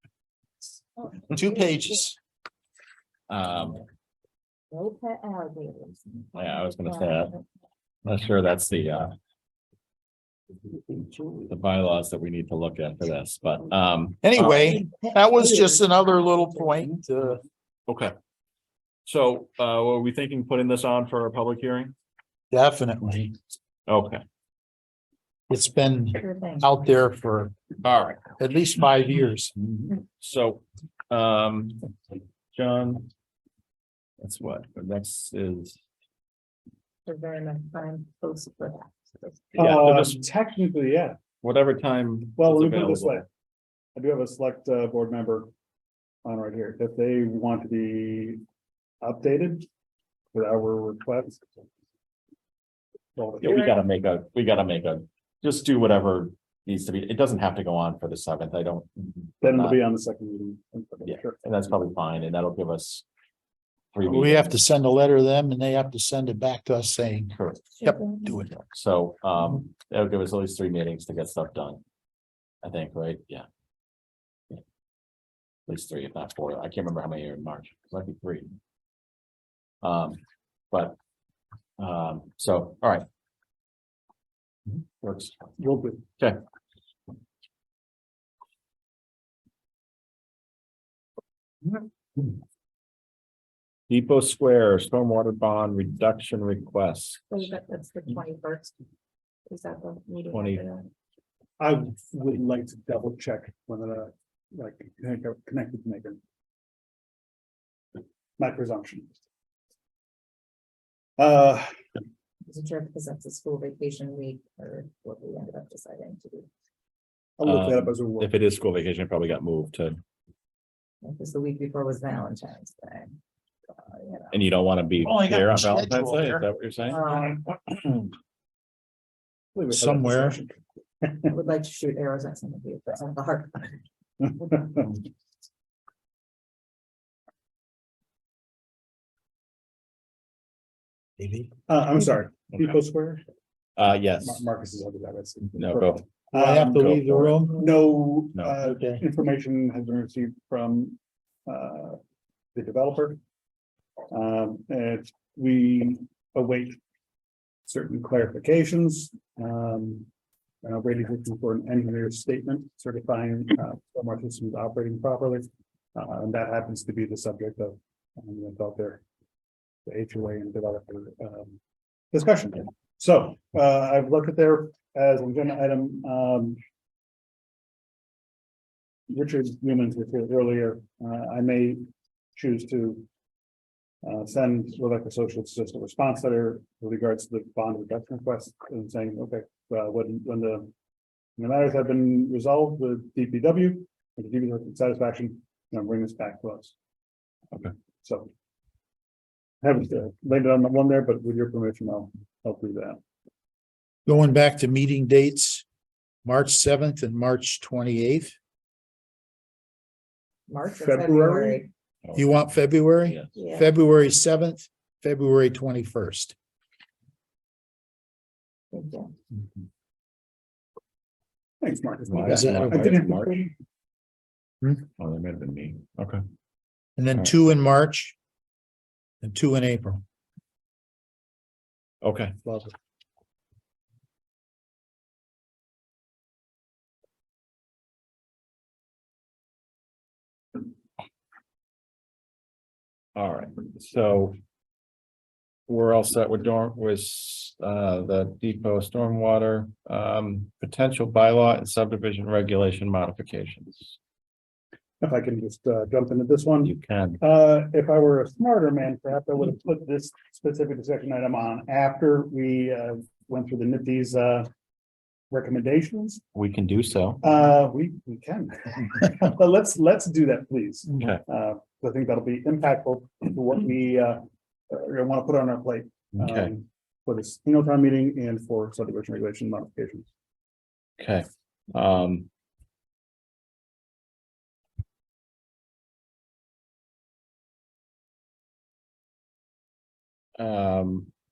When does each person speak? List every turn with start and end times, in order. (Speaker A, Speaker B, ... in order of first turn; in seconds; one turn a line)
Speaker A: 1.0-2.0
Speaker B: 1.3-2.2
Speaker C: 3.3-3.8
Speaker A: 4.7-7.3
Speaker C: 6.3-7.3
Speaker C: 8.1-9.1
Speaker C: 10.9-14.8
Speaker B: 14.2-17.4
Speaker A: 14.8-15.7
Speaker C: 17.9-18.1
Speaker C: 19.1-21.9
Speaker B: 22.5-23.4
Speaker C: 23.9-24.2
Speaker B: 25.5-27.5
Speaker A: 26.1-26.7
Speaker C: 27.8-28.4
Speaker B: 28.4-29.5
Speaker C: 30.0-31.9
Speaker C: 32.5-33.1
Speaker C: 34.2-35.8
Speaker A: 37.0-39.6
Speaker C: 39.5-40.2
Speaker D: 39.5-41.2
Speaker C: 41.4-43.3
Speaker D: 42.4-43.2
Speaker D: 44.0-45.5
Speaker D: 46.2-48.4
Speaker D: 49.0-49.7
Speaker D: 50.3-51.7
Speaker D: 53.1-53.7
Speaker C: 53.4-59.8
Speaker D: 59.4-61.4
Speaker C: 61.0-63.0
Speaker C: 63.9-64.6
Speaker B: 64.0-68.5
Speaker C: 67.3-67.7
Speaker A: 67.8-68.4
Speaker C: 68.5-71.8
Speaker C: 72.6-73.4
Speaker C: 75.7-78.5
Speaker C: 79.8-80.2
Speaker C: 80.7-81.0
Speaker C: 81.8-83.0
Speaker C: 85.0-85.5
Speaker D: 85.6-86.0
Speaker C: 93.9-97.4
Speaker A: 97.3-98.7
Speaker A: 99.5-100.9
Speaker C: 100.3-100.6
Speaker D: 101.6-106.2
Speaker D: 108.4-109.2
Speaker D: 111.2-111.7
Speaker A: 112.5-116.5
Speaker D: 117.4-118.3
Speaker C: 117.4-120.0
Speaker A: 121.0-123.1
Speaker A: 123.8-124.4
Speaker C: 124.3-127.0
Speaker B: 125.0-126.4
Speaker A: 126.8-127.4
Speaker D: 129.5-131.3
Speaker B: 129.7-130.4
Speaker A: 131.3-133.8
Speaker A: 134.4-134.7
Speaker D: 134.4-134.9
Speaker B: 141.2-141.5
Speaker D: 141.7-143.2
Speaker C: 143.8-144.5
Speaker D: 144.2-152.0
Speaker C: 145.6-146.1
Speaker B: 146.3-147.6
Speaker C: 146.6-147.2
Speaker C: 148.3-148.6
Speaker B: 148.6-149.0
Speaker D: 152.5-153.2
Speaker D: 154.1-156.8
Speaker D: 157.7-160.1
Speaker D: 160.6-169.0
Speaker D: 169.8-171.6
Speaker D: 172.1-176.6
Speaker D: 179.1-181.8
Speaker D: 182.3-183.1
Speaker D: 184.0-190.7
Speaker D: 191.4-196.7
Speaker D: 198.0-198.3
Speaker D: 199.6-203.0
Speaker B: 204.1-205.6
Speaker B: 206.2-208.3
Speaker A: 210.5-211.7
Speaker D: 210.7-211.7
Speaker C: 212.0-213.3
Speaker B: 212.1-216.3
Speaker A: 213.3-213.7
Speaker A: 218.7-219.1
Speaker D: 221.6-223.5
Speaker C: 222.1-223.4
Speaker B: 222.2-222.9
Speaker C: 225.0-226.2
Speaker B: 227.0-228.1
Speaker B: 229.2-230.0
Speaker C: 232.0-232.3
Speaker D: 232.4-232.7
Speaker C: 243.2-244.4
Speaker C: 245.7-254.0
Speaker D: 255.0-264.5
Speaker C: 256.6-257.2
Speaker D: 265.3-266.2
Speaker C: 266.3-267.2
Speaker D: 267.2-280.1
Speaker C: 270.9-271.2
Speaker C: 276.1-276.5
Speaker C: 281.0-282.3
Speaker C: 290.4-291.1